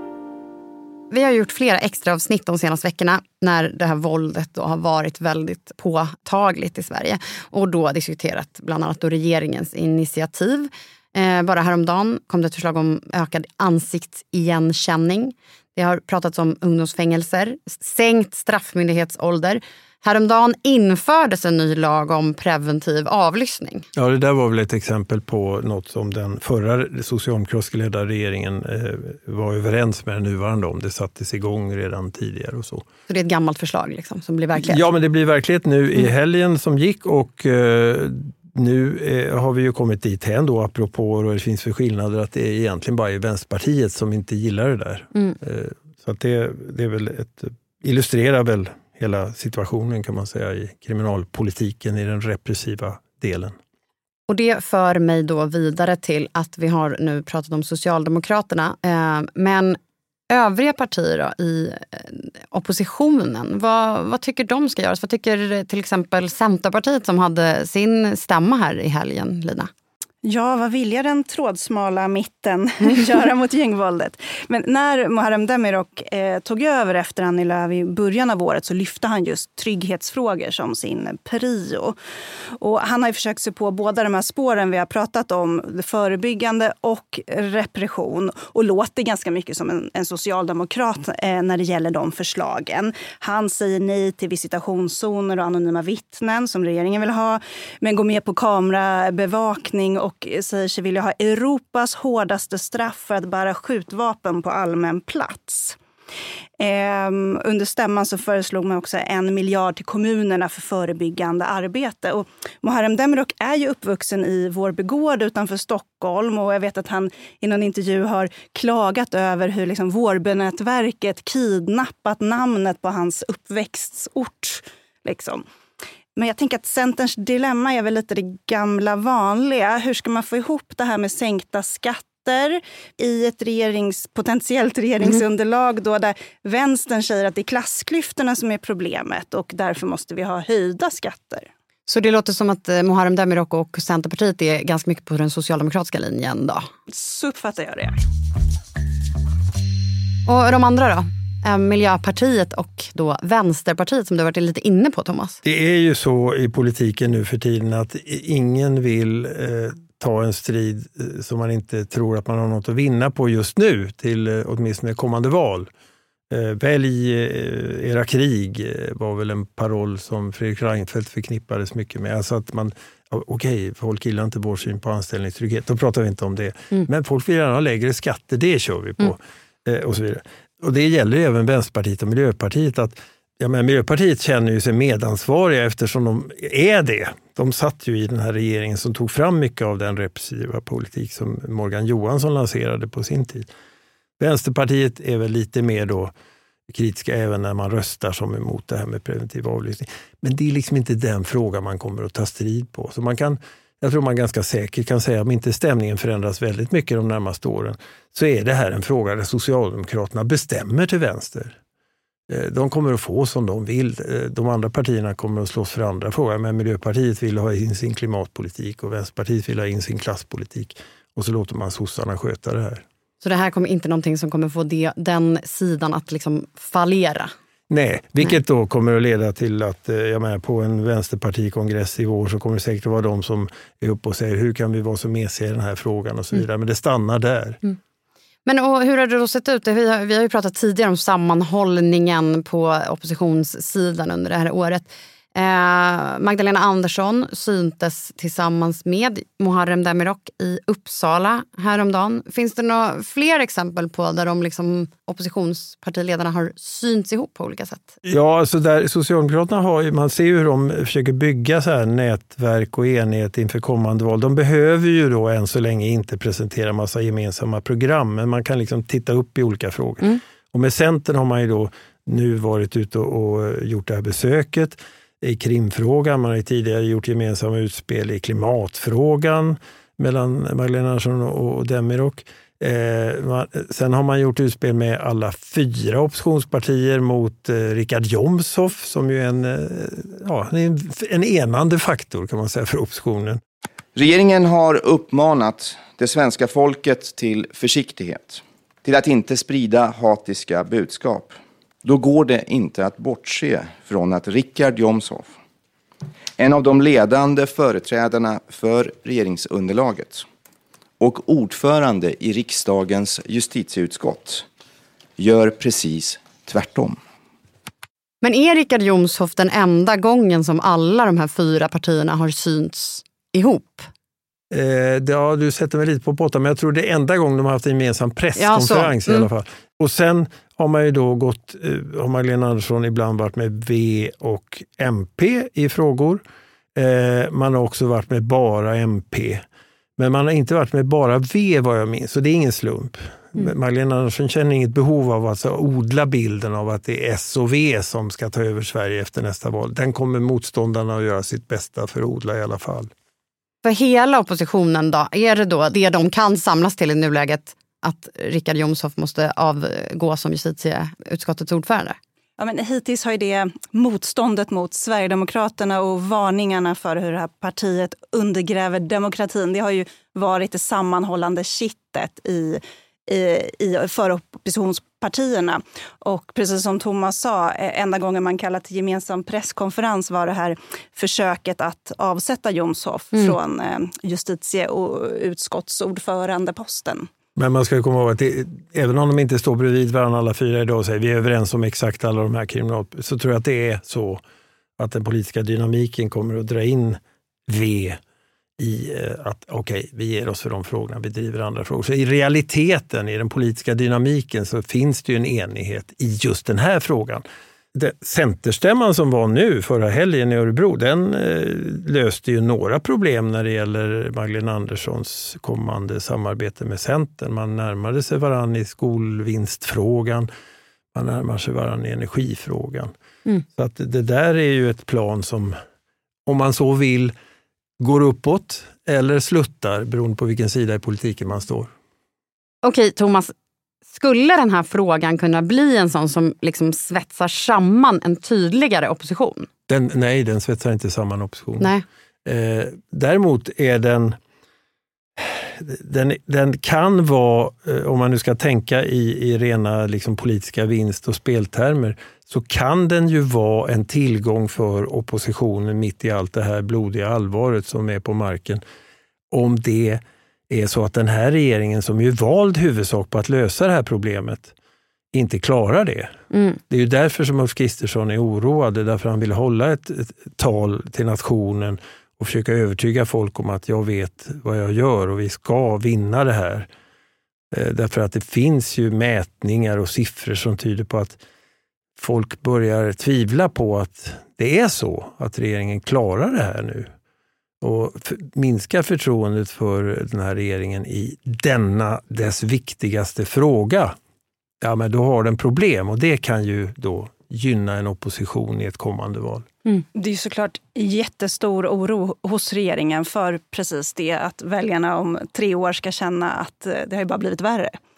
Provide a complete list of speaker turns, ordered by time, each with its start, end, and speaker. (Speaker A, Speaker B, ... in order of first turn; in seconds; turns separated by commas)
Speaker A: 1.1-23.9, Speaker B: 23.9-32.8, Speaker A: 33.1-34.8, Speaker B: 34.5-53.5, Speaker A: 54.3-59.8, Speaker A: 60.3-69.7, Speaker C: 70.2-82.0, Speaker C: 82.6-105.8, Speaker C: 106.6-125.4, Speaker C: 126.2-141.5, Speaker A: 141.9-146.7, Speaker C: 146.9-148.0, Speaker A: 150.2-155.4, Speaker B: 155.4-165.7, Speaker B: 166.3-193.5, Speaker B: 194.2-196.1, Speaker B: 196.7-211.6, Speaker B: 212.3-222.8, Speaker A: 223.2-227.3, Speaker B: 227.7-237.6, Speaker A: 238.4-257.9, Speaker B: 258.0-293.4, Speaker D: 293.9-305.4, Speaker D: 306.4-310.2, Speaker D: 311.0-314.4, Speaker D: 315.2-317.0, Speaker A: 318.2-323.9, Speaker B: 324.5-336.2, Speaker A: 328.4-329.3, Speaker B: 336.8-339.4, Speaker B: 340.0-352.9, Speaker A: 353.6-362.0, Speaker C: 362.4-387.1, Speaker B: 387.4-394.2, Speaker B: 394.8-398.0, Speaker B: 398.6-420.3, Speaker B: 420.9-422.9, Speaker B: 423.5-425.6, Speaker B: 426.2-427.1, Speaker B: 427.8-431.7, Speaker A: 432.6-433.3, Speaker A: 433.9-439.5, Speaker B: 439.7-441.7, Speaker A: 441.6-441.8, Speaker B: 442.2-444.2, Speaker B: 445.2-458.6, Speaker B: 459.3-464.5, Speaker B: 465.1-466.1, Speaker A: 466.3-466.6, Speaker B: 466.7-476.7, Speaker B: 477.5-481.2, Speaker B: 482.0-486.9, Speaker B: 487.6-493.9, Speaker B: 494.6-499.5, Speaker C: 499.9-507.8